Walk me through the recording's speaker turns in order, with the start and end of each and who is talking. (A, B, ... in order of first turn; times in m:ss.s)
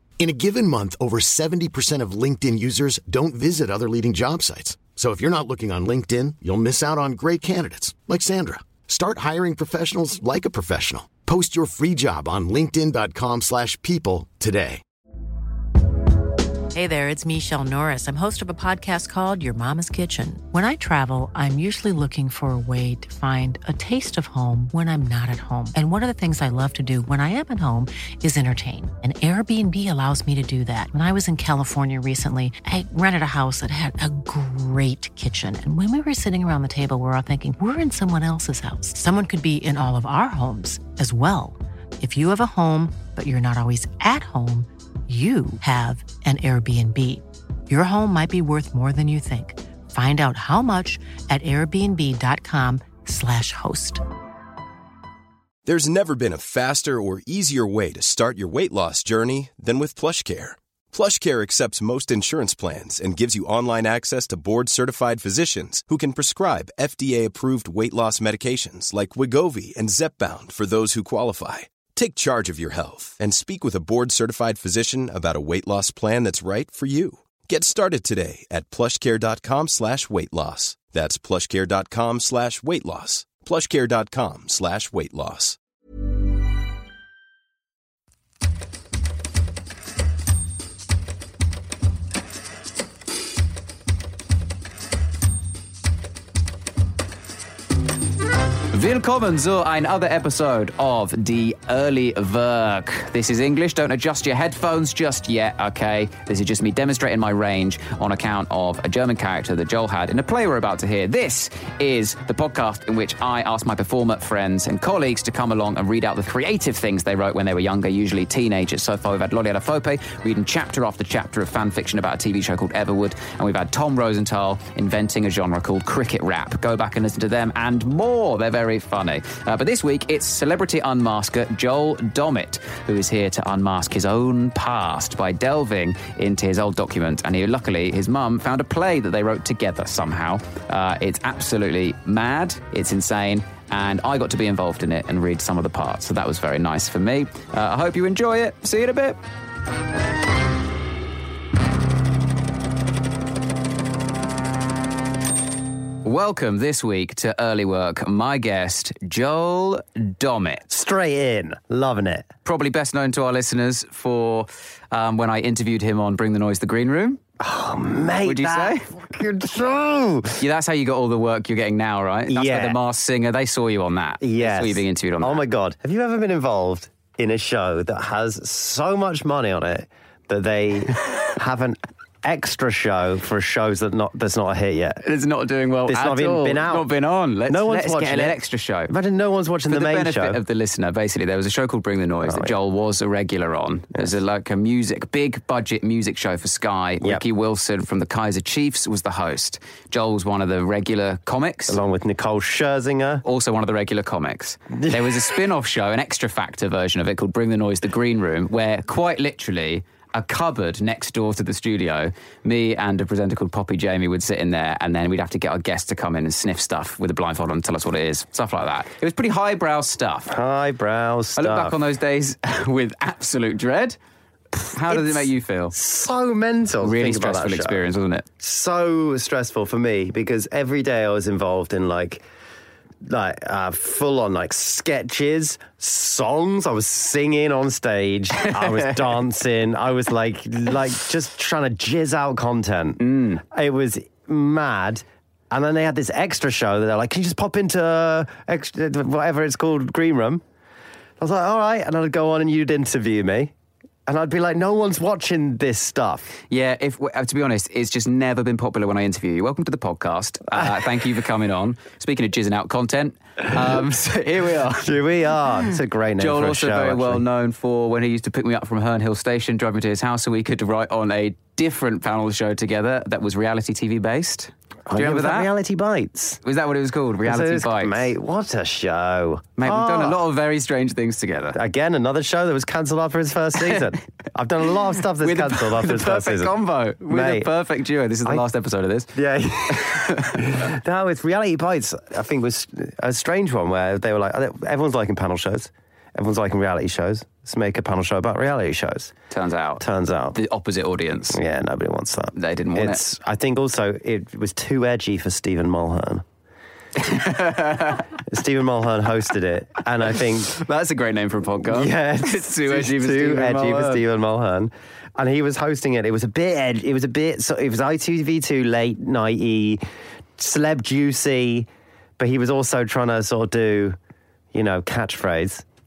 0:00.2-0:14.8 A
0:16.7-0:54.0 B
0:55.6-1:25.6 C
1:38.7-2:29.2 D
2:36.0-2:40.7 D
2:40.7-2:42.3 E
2:42.4-2:47.2 D
2:47.4-2:50.4 E
2:48.2-2:48.9 D
2:50.4-2:55.4 D
2:52.3-2:52.8 E
2:54.2-3:05.0 E
3:05.0-3:08.9 D
3:05.8-3:06.9 E
3:07.5-3:08.4 E
3:08.9-3:10.4 E
3:09.7-3:21.8 D
3:12.2-3:12.5 E
3:21.7-3:23.2 E
3:23.2-3:40.3 D
3:24.8-3:25.1 E
3:40.3-3:41.8 E
3:41.4-3:44.0 D
3:44.5-3:45.7 D
3:44.9-3:47.8 E
3:46.8-3:48.2 D
3:48.4-3:52.2 E
3:53.0-4:10.4 E
3:58.4-3:59.0 D
4:03.0-4:03.4 D
4:11.2-4:13.5 E
4:14.0-4:16.3 E
4:16.5-4:24.9 D
4:24.8-4:27.2 E
4:26.2-4:35.5 D
4:34.9-4:36.4 E
4:36.4-4:38.1 D
4:37.2-4:40.2 E
4:39.6-4:41.6 D
4:41.5-4:46.6 E
4:45.2-4:49.1 D
4:47.1-4:47.5 E
4:49.1-4:59.1 E
4:49.7-4:50.4 D
4:59.3-4:59.8 D
4:59.8-5:00.4 E
5:00.3-5:01.4 D
5:01.3-5:06.2 E
5:02.3-5:03.0 D
5:07.0-5:08.1 D
5:08.2-5:10.6 E
5:10.5-5:14.0 D
5:11.6-5:19.8 E
5:20.4-5:21.7 E
5:22.2-5:24.0 E
5:24.5-5:25.6 E